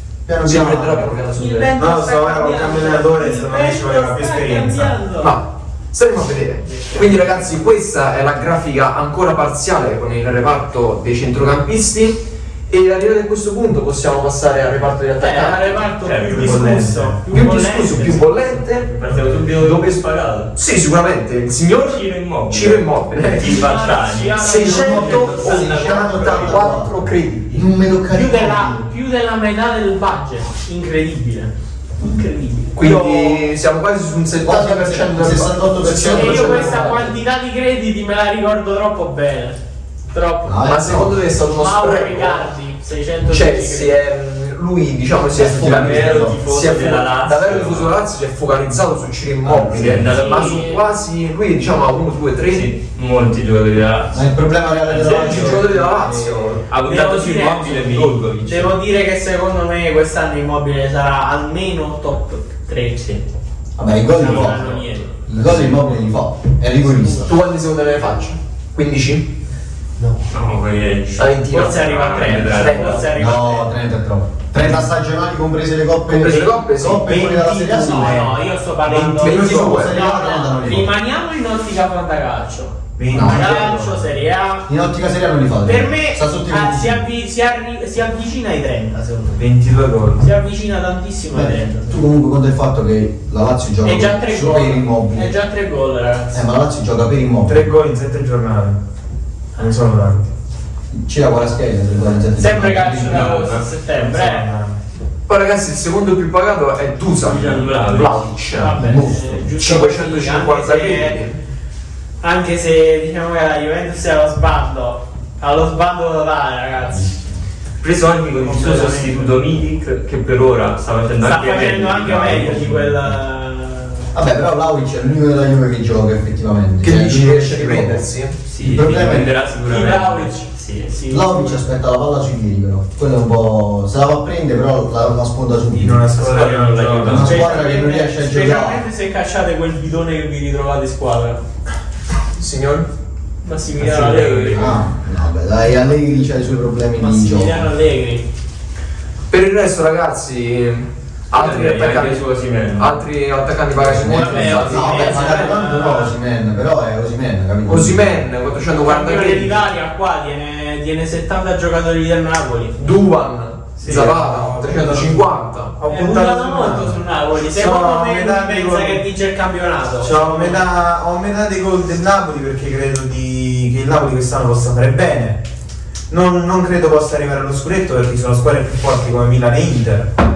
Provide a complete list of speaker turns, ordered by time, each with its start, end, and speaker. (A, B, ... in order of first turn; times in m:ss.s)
0:00.2-0:01.2 A
0:00.4-0:01.8 B
0:01.3-0:05.4 C
0:01.8-0:05.0 D
0:05.1-0:15.8 B
0:06.7-0:07.4 C
0:15.2-0:18.6 C
0:16.0-0:16.6 E
0:16.3-0:17.2 D
0:17.3-0:20.0 B
0:18.8-0:20.5 E
0:20.5-0:23.6 B
0:21.8-0:25.1 E
0:23.4-0:26.7 C
0:24.4-0:27.7 B
0:24.7-0:28.9 A
0:28.1-0:33.4 C
0:32.7-0:37.1 B
0:34.4-0:36.9 A
0:36.1-0:39.6 C
0:40.1-0:40.7 C
0:40.4-0:41.2 A
0:40.6-0:42.5 B
0:41.5-0:44.0 C
0:43.3-0:52.7 B
0:45.3-0:46.4 A
0:45.6-0:47.9 E
0:49.4-0:50.1 A
0:49.7-0:50.6 E
0:50.1-0:50.9 C
0:52.5-0:55.6 E
0:54.1-0:56.6 A
0:54.9-0:56.6 B
0:56.7-0:58.8 E
0:56.8-1:03.0 C
1:03.8-1:04.7 A
1:04.1-1:05.1 C
1:04.2-1:05.8 E
1:05.2-1:07.3 A
1:07.2-1:09.3 B
1:10.0-1:13.0 E
1:11.2-1:11.7 B
1:11.5-1:13.7 C
1:12.4-1:13.1 B
1:13.1-1:18.3 A
1:16.1-1:17.1 B
1:17.0-1:18.3 D
1:17.7-1:24.7 C
1:18.9-1:20.9 A
1:19.2-1:20.0 B
1:23.0-1:24.0 D
1:23.1-1:23.7 A
1:24.6-1:27.1 A
1:25.6-1:29.4 C
1:29.4-1:30.2 D
1:30.2-1:32.0 C
1:31.3-1:35.4 A
1:33.8-1:36.4 C
1:36.3-1:37.7 A
1:37.4-1:38.8 D
1:39.6-1:40.3 D
1:40.9-1:43.4 A
1:42.4-1:44.5 C
1:42.7-1:44.1 E
1:44.2-1:44.8 D
1:45.3-1:48.7 B
1:47.2-1:48.8 E
1:48.5-1:51.2 C
1:48.7-1:49.5 A
1:49.5-1:51.4 B
1:52.2-1:57.1 C
1:56.9-1:57.3 A
1:57.8-2:02.9 E
1:58.3-1:59.3 C
2:01.2-2:04.1 C
2:02.2-2:02.9 A
2:04.1-2:08.1 A
2:06.8-2:08.4 B
2:08.5-2:10.9 E
2:08.6-2:09.3 A
2:09.6-2:11.6 C
2:11.1-2:16.1 A
2:15.7-2:17.2 D
2:16.1-2:17.4 E
2:17.0-2:18.8 A
2:17.2-2:21.4 C
2:22.4-2:22.9 B
2:23.4-2:24.8 C
2:23.8-2:24.8 E
2:24.5-2:27.7 A
2:27.0-2:28.2 C
2:29.3-2:32.2 B
2:31.3-2:33.0 E
2:32.8-2:35.6 B
2:33.7-2:38.2 A
2:34.0-2:36.1 C
2:37.6-2:39.6 B
2:38.8-2:42.9 C
2:42.8-2:45.8 B
2:43.8-2:47.0 D
2:45.9-2:50.6 C
2:47.5-2:49.0 D
2:50.0-2:55.5 D
2:56.1-3:00.1 D